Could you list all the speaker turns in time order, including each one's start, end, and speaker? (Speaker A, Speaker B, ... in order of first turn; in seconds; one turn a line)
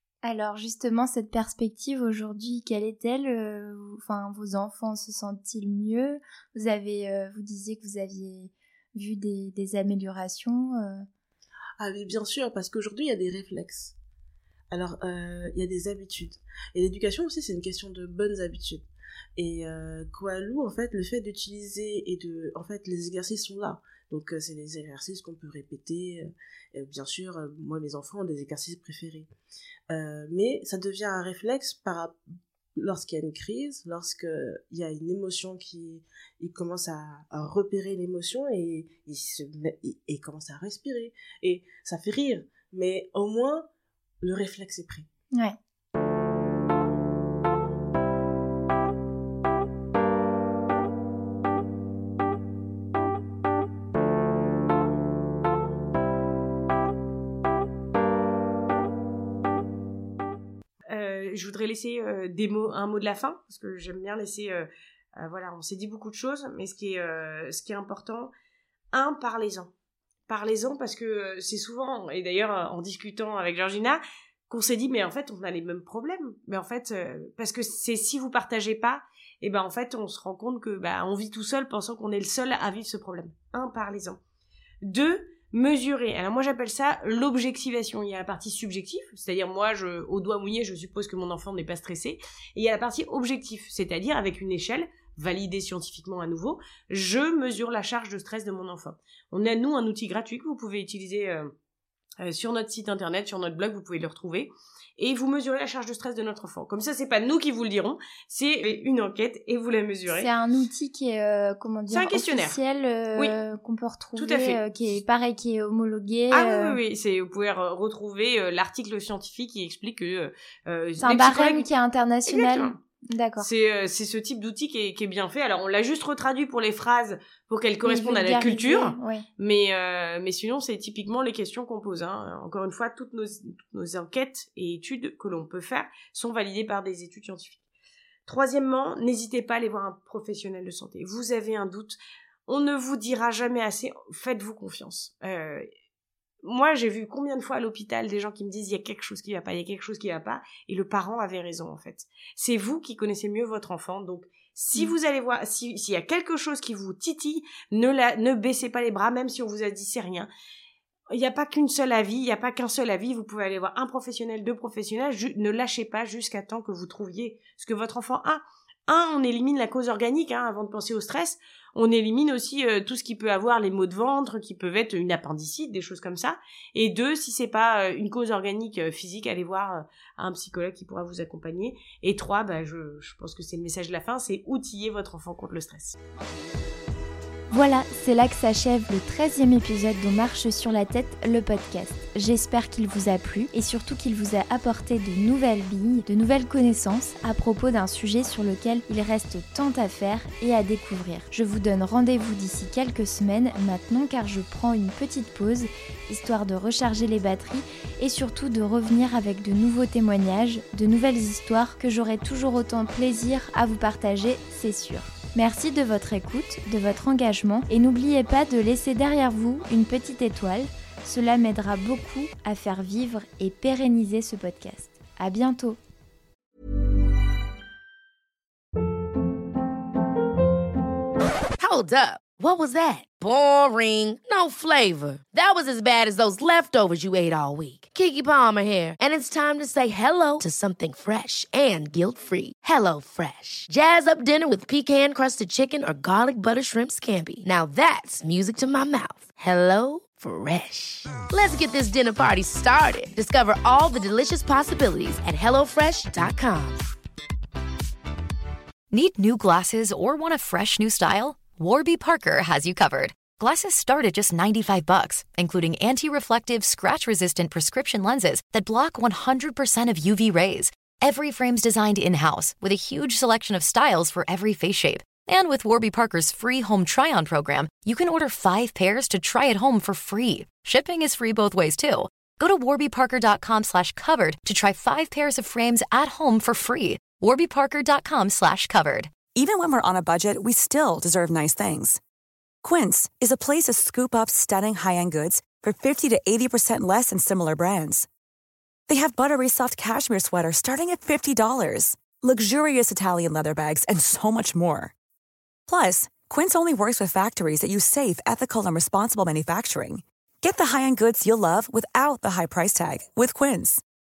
Speaker A: 0.2-11.1
Speaker B: 11.8-13.9
Speaker B: 14.7-29.3
Speaker B: 29.9-32.2
Speaker B: 32.8-43.7
Speaker B: 44.2-45.1
Speaker C: 60.9-68.3
Speaker C: 68.9-69.7
Speaker C: 70.3-84.2
Speaker C: 84.8-101.5
Speaker C: 102.2-110.3
Speaker A: 110.1-116.8
Speaker C: 111.9-112.6
Speaker C: 114.2-114.6
Speaker C: 116.3-121.7
Speaker A: 121.0-123.5
Speaker C: 122.3-122.8
Speaker C: 123.4-137.6
Speaker A: 127.8-129.3
Speaker C: 138.3-145.7
Speaker C: 146.4-160.3
Speaker C: 161.1-185.9
Speaker A: 187.5-225.8
Speaker D: 231.6-256.9
Speaker E: 258.9-289.2
Speaker F: 289.3-292.0
Speaker F: 292.6-298.1
Speaker F: 298.9-304.9
Speaker F: 305.7-313.8